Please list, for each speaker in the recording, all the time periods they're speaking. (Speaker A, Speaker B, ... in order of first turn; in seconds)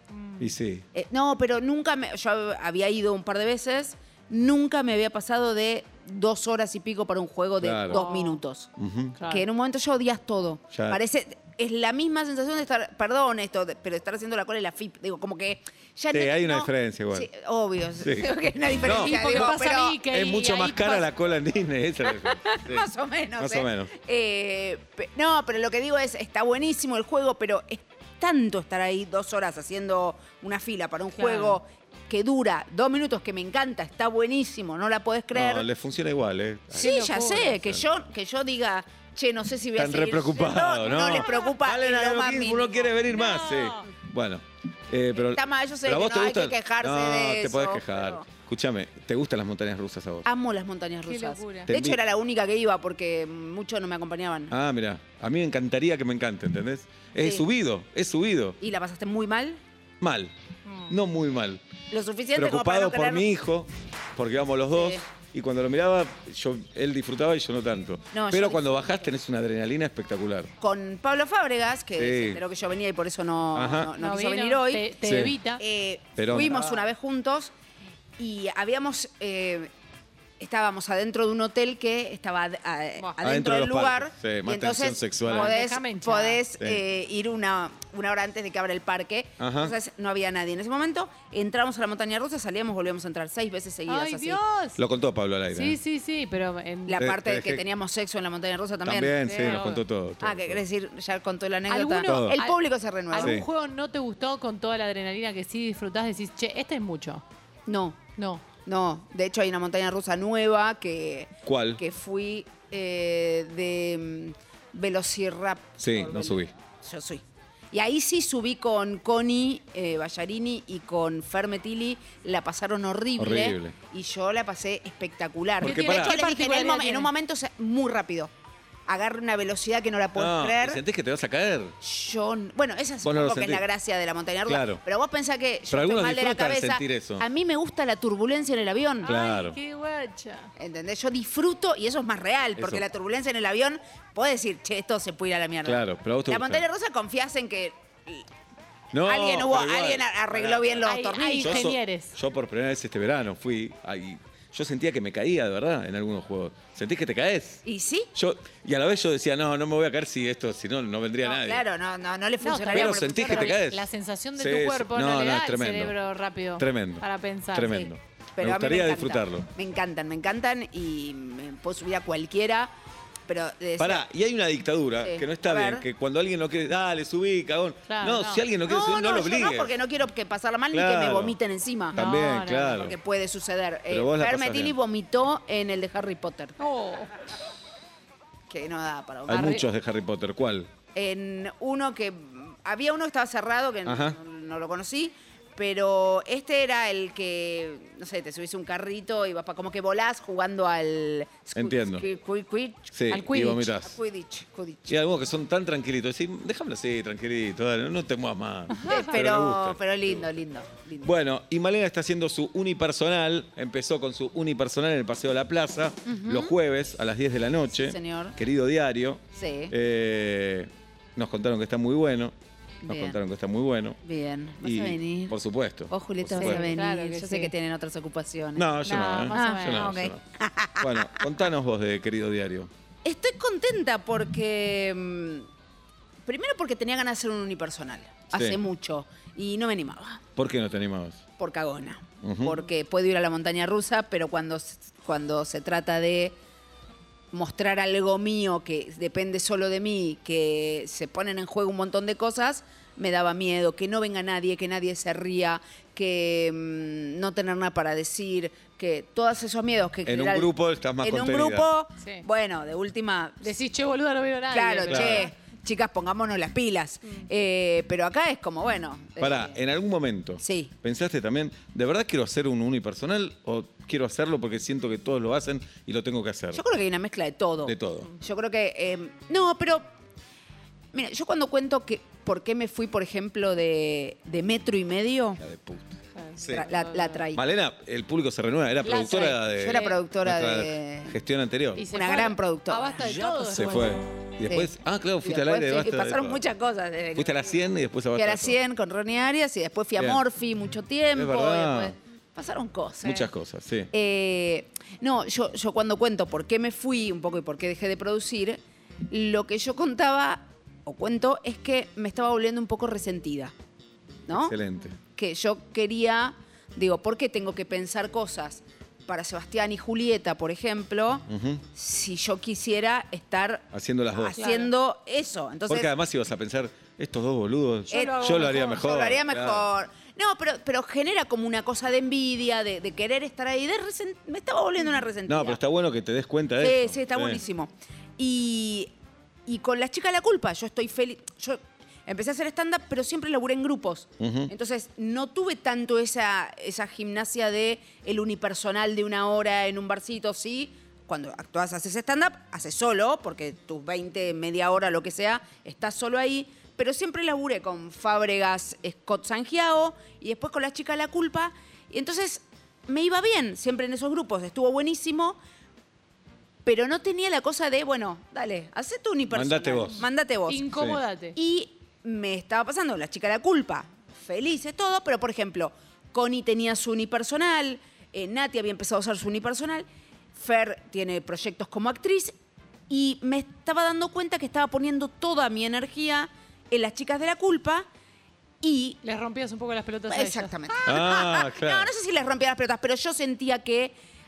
Speaker A: 0.1-0.5, 7.9-8.4, 9.2-9.5, 18.9-21.1, 31.2-31.6, 36.8-37.5, 43.1-43.9, 51.0-51.7, 60.7-61.0, 74.0-75.6, 85.3-86.4, 93.9-94.8, 95.5-97.0, 99.2-99.8, 101.7-102.6, 103.1-107.2, 108.2-108.4, 125.6-127.1, 139.0-140.5, 150.8-152.1, 162.4-167.9, 177.9-178.4, 181.9-182.8, 186.6-187.1, 189.3-189.6, 203.1-203.7, 208.7-209.1, 226.4-227.5, 228.8-229.9, 263.4-265.3, 286.1-287.2, 288.8-290.0, 291.8-294.0, 324.4-324.7, 327.9-328.8, 370.5-371.4, 389.0-390.5
Speaker B: 0.4-0.8, 7.6-8.0, 8.8-9.2, 10.7-11.0, 16.1-17.3, 18.0-18.3, 18.8-19.5, 20.1-23.9, 35.3-37.0, 39.8-50.3, 51.7-52.0, 54.5-58.6, 60.0-60.3, 60.9-61.6, 62.4-70.5, 72.0-72.4, 73.5-73.9, 75.0-75.4, 76.2-76.8, 83.2-85.5, 89.4-89.8, 94.8-95.8, 97.0-97.6, 98.8-100.6, 102.0-102.4, 103.2-103.5, 111.5-111.8, 115.8-116.5, 123.2-123.8, 125.6-126.2, 130.2-131.8, 133.0-133.7, 134.5-134.8, 135.7-137.2, 139.1-139.6, 142.6-142.8, 145.7-146.7, 148.9-150.9, 151.4-161.6, 162.7-165.9, 166.6-169.5, 173.8-179.8, 180.7-181.4, 181.9-183.0, 183.9-184.7, 189.3-190.7, 193.9-194.2, 201.6-202.1, 202.9-204.0, 204.9-210.3, 211.0-222.3, 222.9-224.0, 224.6-226.7, 228.6-230.2, 230.8-232.7, 238.3-238.6, 240.4-241.2, 242.2-242.6, 260.1-261.7, 264.9-265.3, 269.2-276.6, 277.6-278.1, 285.4-286.7, 287.4-291.9, 293.0-296.4, 297.2-298.6, 300.0-300.2, 301.1-301.9, 303.0-303.9, 314.3-315.0, 321.3-321.6, 323.7-324.4, 325.7-329.7, 335.3-337.4, 344.2-344.5, 369.3-370.1, 370.7-371.0, 390.9-391.9
Speaker C: 0.9-8.7, 9.3-20.0, 22.2-35.7, 36.8-43.0, 45.2-48.3, 50.2-54.5, 57.2-57.5, 58.6-59.6, 61.9-63.3, 64.7-65.1, 68.1-68.8, 70.6-74.9, 75.6-77.5, 78.2-79.7, 80.4-94.4, 96.9-99.6, 100.2-103.4, 107.7-108.0, 108.7-128.3, 128.9-130.8, 131.8-139.1, 140.6-148.3, 149.0-151.8, 157.7-158.1, 161.2-163.6, 168.4-172.7, 173.3-174.1, 175.0-175.9, 178.6-182.0, 182.7-186.6, 188.5-189.6, 190.9-202.9, 203.8-205.0, 208.8-211.2, 216.1-216.6, 217.8-218.4, 219.3-219.7, 222.8-223.2, 224.0-225.4, 225.9-228.7, 229.3-231.2, 233.1-235.5, 236.3-240.2, 241.4-246.4, 247.3-263.5, 264.5-269.6, 270.4-270.7, 276.5-279.9, 280.9-285.4, 286.5-287.4, 289.1-291.2, 291.9-293.9, 294.4-294.7, 295.2-297.6, 298.1-303.3, 303.9-313.5, 314.3-314.6, 315.1-325.9, 327.9-335.6, 336.6-338.9, 339.5-365.4, 366.6-370.7, 371.4-382.4, 382.9-387.9, 388.6-389.0, 390.1-393.9